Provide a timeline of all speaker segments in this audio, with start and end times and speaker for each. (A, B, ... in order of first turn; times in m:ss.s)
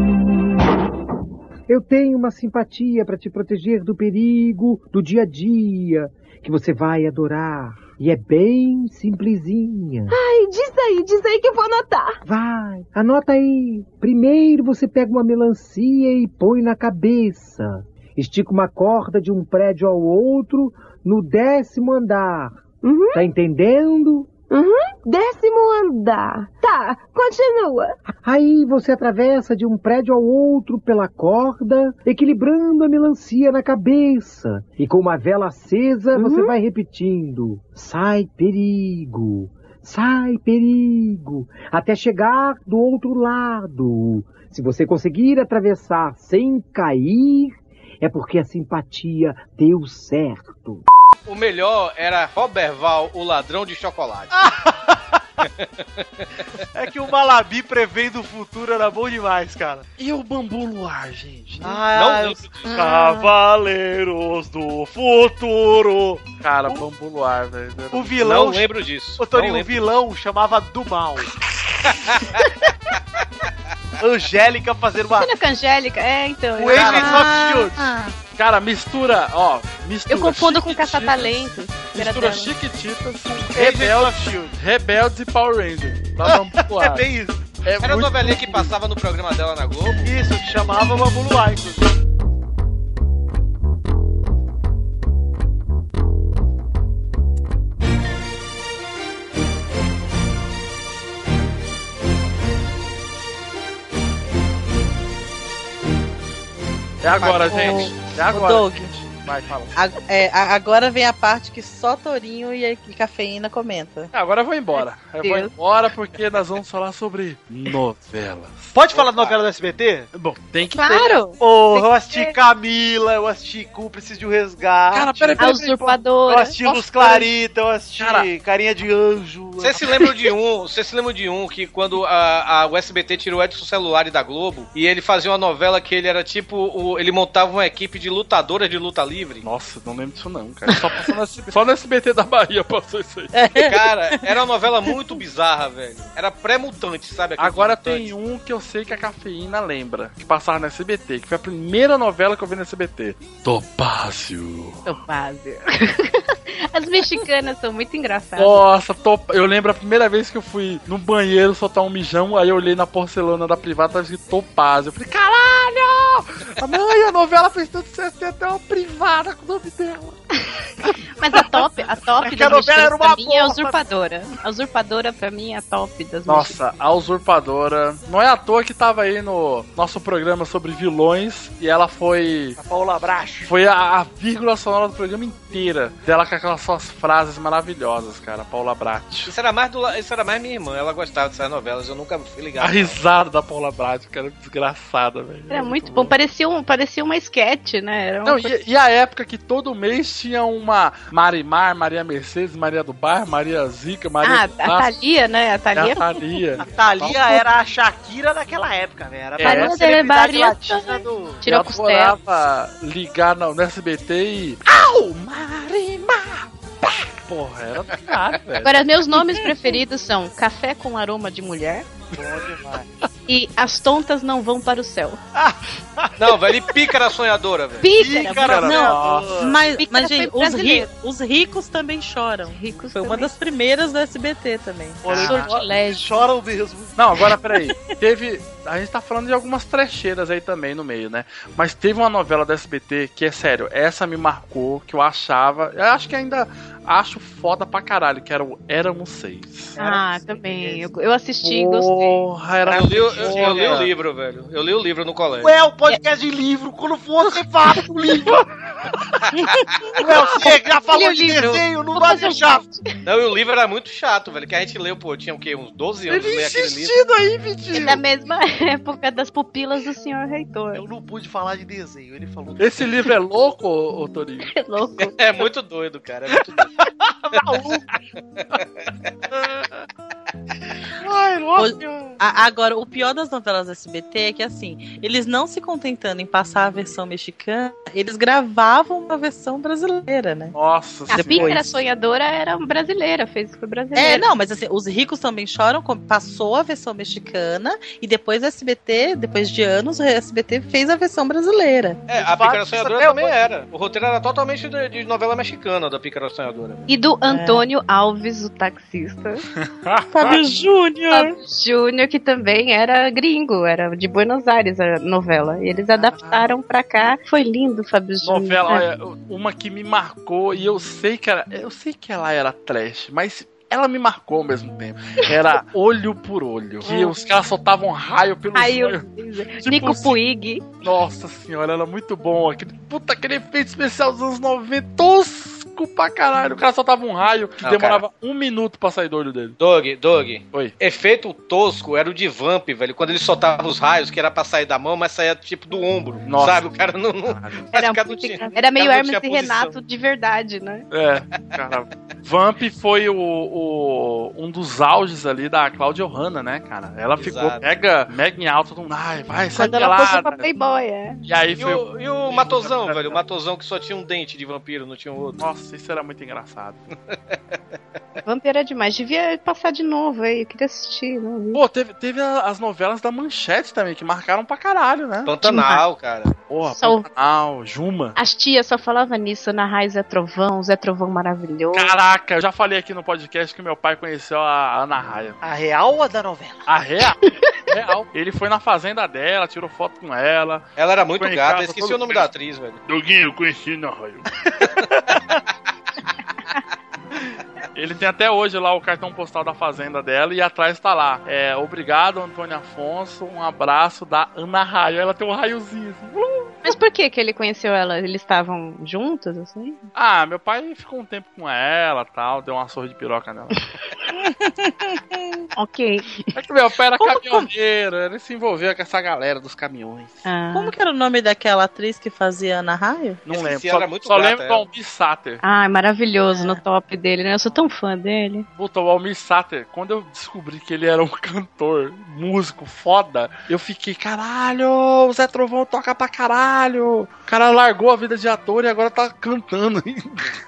0:01.7-0:10.1 A
0:10.1-0:12.2 B
0:12.2-0:22.6 A
0:22.8-0:23.2 B
0:23.1-0:24.3 A
0:24.5-0:28.0 B
0:28.2-0:50.8 A
0:36.2-0:36.6 B
0:51.3-0:54.3 C
0:54.3-0:55.2 D
0:55.6-0:56.2 C
0:56.7-0:59.8 D
1:00.0-1:01.8 E
1:01.6-1:06.2 D
1:01.9-1:02.7 C
1:02.6-1:03.2 F
1:06.4-1:08.2 E
1:07.9-1:11.3 D
1:08.2-1:09.7 C
1:12.1-1:12.4 C
1:14.0-1:15.3 D
1:15.2-1:17.3 F
1:16.5-1:17.8 D
1:16.8-1:17.3 E
1:16.9-1:18.1 G
1:18.3-1:21.3 E
1:20.1-1:22.5 F
1:21.9-1:27.0 E
1:23.6-1:24.5 D
1:26.2-1:27.4 D
1:27.6-1:28.7 E
1:27.8-1:30.1 C
1:30.0-1:31.9 D
1:47.0-1:49.8 E
1:47.2-1:47.8 C
1:47.2-1:48.9 G
1:49.8-1:54.1 G
1:54.1-1:58.8 E
1:54.8-1:55.5 F
1:58.7-2:00.1 D
2:00.1-2:01.2 E
2:00.7-2:02.3 F
2:01.4-2:05.4 D
2:04.9-2:06.0 E
2:05.4-2:06.5 F
2:06.3-2:10.0 D
2:06.6-2:07.3 E
2:08.0-2:08.3 E
2:09.6-2:19.4 C
2:19.4-2:23.3 E
2:23.3-2:24.2 G
2:23.6-2:28.1 C
2:27.4-2:34.8 E
2:34.8-2:38.6 F
2:38.4-2:50.2 E
2:51.1-2:56.6 F
2:52.2-2:53.8 D
2:56.3-3:02.6 E
3:02.6-3:03.5 D
3:03.4-3:09.3 E
3:09.2-3:13.0 C
3:12.6-3:16.1 E
3:15.5-3:18.5 F
3:18.2-3:24.9 E
3:24.2-3:26.4 F
3:25.7-3:27.2 E
3:26.6-3:31.4 D
3:29.4-3:29.7 E
3:29.4-3:32.2 F
3:31.4-3:38.8 E
3:38.6-3:41.8 F
3:42.1-3:42.9 D
3:43.3-3:45.2 F
3:45.3-3:46.3 D
3:46.2-3:47.8 C
3:47.8-3:48.8 F
3:47.9-3:49.5 D
3:48.4-3:49.3 E
3:48.7-3:55.2 G
3:49.7-3:50.9 F
3:52.5-3:53.3 F
3:55.0-3:57.0 D
3:55.1-3:55.5 E
3:55.1-3:56.1 F
3:57.0-4:09.8 E
4:09.8-4:10.9 D
4:09.8-4:12.2 F
4:11.4-4:13.9 E
4:12.6-4:13.9 D
4:12.7-4:15.5 C
4:15.4-4:18.4 D
4:20.0-4:22.6 D
4:20.4-4:22.9 F
4:23.0-4:26.9 C
4:26.1-4:28.0 E
4:27.7-4:30.8 F
4:30.7-4:32.9 D
4:32.6-4:34.5 E
4:34.5-4:35.4 F
4:35.0-4:36.7 C
4:36.8-4:37.9 D
4:38.5-4:38.9 C
4:41.1-4:41.6 D
4:41.5-4:42.1 E
4:41.6-4:50.5 G
4:50.5-4:51.6 E
4:51.1-4:54.3 F
4:51.1-4:51.8 G
4:53.9-5:02.0 G
5:02.1-5:06.8 C
5:02.1-5:03.4 D
5:06.9-5:09.4 F
5:07.3-5:07.7 G
5:09.6-5:10.4 E
5:10.1-5:11.4 G
5:11.1-5:18.8 F
5:18.2-5:30.2 E
5:26.8-5:27.1 F
5:28.5-5:30.6 F
5:30.8-5:39.6 E
5:37.6-5:38.0 C
5:39.6-5:49.8 C
5:46.2-5:46.6 E
5:47.2-5:47.7 E
5:47.7-5:50.8 F
5:50.9-6:00.5 E
5:57.2-5:57.6 C
5:59.5-6:01.2 F
6:01.3-6:03.2 E
6:01.6-6:05.4 C
6:05.4-6:06.8 E
6:08.2-6:11.6 F
6:11.5-6:15.4 E
6:15.2-6:16.3 C
6:15.4-6:15.8 F
6:16.5-6:18.2 E
6:16.7-6:17.0 F
6:18.2-6:21.9 F
6:21.7-6:25.4 E
6:25.4-6:26.7 D
6:26.7-6:27.2 E
6:27.2-6:27.6 F
6:27.7-6:30.6 E
6:30.8-6:32.8 C
6:31.2-6:32.3 E
6:32.8-6:34.3 E
6:37.7-6:46.6 E
6:46.6-6:49.8 F
6:49.9-6:53.6 E
6:54.1-6:55.4 G
6:55.6-6:56.3 F
6:56.3-7:00.2 E
7:00.2-7:00.7 F
7:00.5-7:03.2 G
7:03.2-7:05.4 E
7:03.3-7:04.6 C
7:05.4-7:08.4 F
7:06.3-7:06.6 G
7:08.5-7:20.4 E